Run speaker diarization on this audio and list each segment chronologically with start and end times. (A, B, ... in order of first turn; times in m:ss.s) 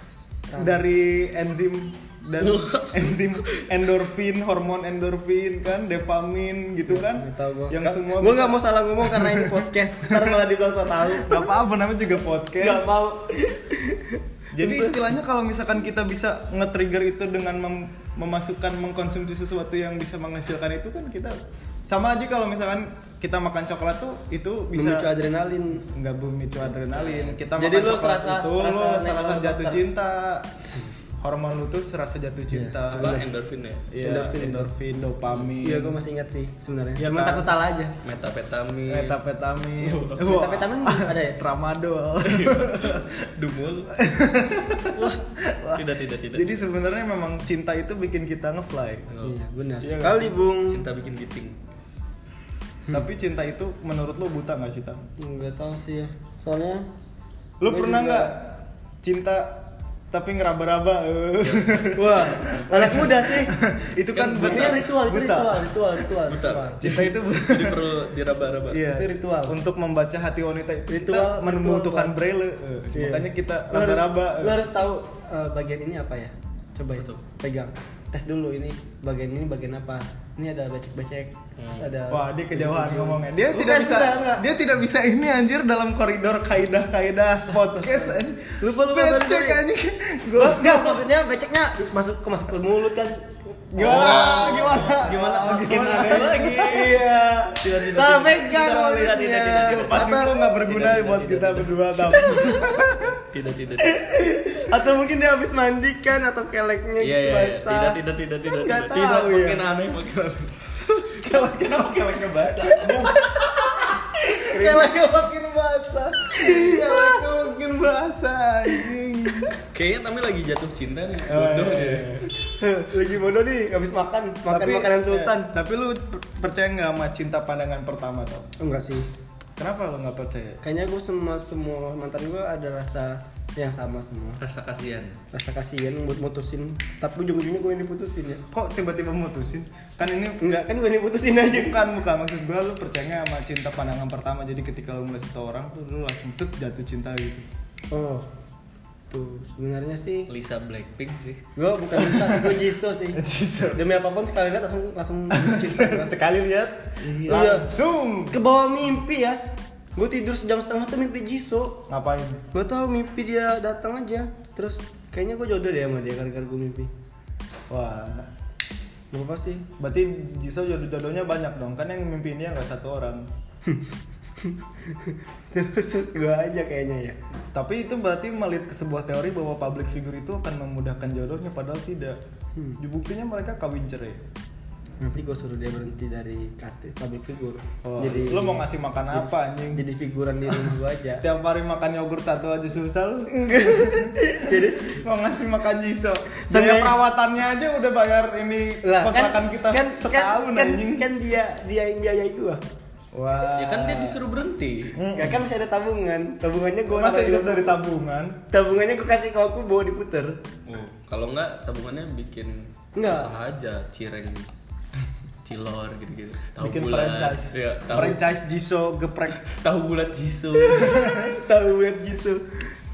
0:00.4-0:00.8 A
0:00.5-0:10.4 B
0:02.4-0:03.7 C
0:06.9-0:11.5 A
0:11.0-0:12.9 B
0:12.6-0:15.0 A
0:14.5-0:25.1 B
0:24.7-0:25.9 A
0:25.8-0:30.7 B
0:26.8-0:27.4 C
0:27.6-0:29.8 A
0:31.2-0:33.2 B
0:32.5-0:33.3 A
0:32.9-0:33.9 C
0:33.9-0:36.0 B
0:34.0-0:34.7 A
0:35.6-0:38.0 A
0:37.0-0:37.5 B
0:38.0-0:39.2 C
0:38.9-0:43.3 B
0:39.8-0:40.2 C
0:40.2-0:41.4 A
0:42.2-0:44.0 C
0:43.9-0:49.1 B
0:44.9-0:45.2 C
0:45.8-0:46.6 C
0:49.1-0:49.4 C
0:49.2-0:50.8 A
0:49.8-0:50.4 B
0:50.6-0:51.6 C
0:52.9-0:55.1 B
0:55.2-0:56.9 A
0:57.6-1:05.9 B
0:57.7-0:58.3 A
1:01.4-1:02.6 C
1:02.0-1:03.5 A
1:04.1-1:04.9 C
1:04.3-1:06.8 A
1:06.3-1:08.8 C
1:06.8-1:08.0 B
1:08.7-1:14.6 B
1:08.9-1:09.6 A
1:10.9-1:12.2 A
1:12.9-1:24.5 A
1:21.6-1:22.0 C
1:22.1-1:31.1 B
1:27.5-1:29.6 A
1:30.4-1:40.4 A
1:33.7-1:36.8 B
1:33.8-1:44.1 C
1:39.7-1:43.2 B
1:43.8-1:49.6 A
1:47.0-1:53.2 C
1:51.0-1:59.6 B
1:54.2-1:55.0 A
1:56.3-1:57.3 A
1:59.6-2:02.2 C
2:01.3-2:02.3 B
2:02.6-2:05.5 A
2:04.5-2:08.5 B
2:08.6-2:09.1 A
2:09.6-2:10.6 B
2:10.6-2:14.4 A
2:14.4-2:15.2 C
2:15.3-2:18.4 A
2:18.5-2:20.4 B
2:20.4-2:21.8 A
2:21.5-2:27.5 B
2:27.9-2:28.3 A
2:29.1-2:30.3 A
2:30.3-2:31.4 C
2:31.6-2:36.1 A
2:32.0-2:32.6 B
2:33.2-2:33.8 B
2:35.3-2:38.4 B
2:37.3-2:37.7 A
2:38.3-2:41.9 A
2:41.9-2:42.4 B
2:42.5-2:46.9 A
2:47.7-2:48.3 B
2:49.1-2:49.7 A
2:49.8-2:53.3 B
2:53.6-2:57.2 A
2:57.5-3:02.2 B
3:02.8-3:04.2 B
3:05.0-3:11.2 A
3:07.8-3:09.9 B
3:11.2-3:21.1 B
3:13.3-3:15.0 A
3:16.4-3:17.0 A
3:18.8-3:22.6 A
3:23.1-3:24.2 B
3:23.5-3:25.0 C
3:25.0-3:25.5 B
3:25.1-3:27.8 A
3:26.9-3:28.4 B
3:28.5-3:30.4 A
3:30.7-3:34.5 C
3:33.0-3:33.3 A
3:35.4-3:38.2 C
3:36.6-3:39.4 B
3:39.4-3:41.1 C
3:40.7-3:42.7 A
3:40.8-3:41.3 B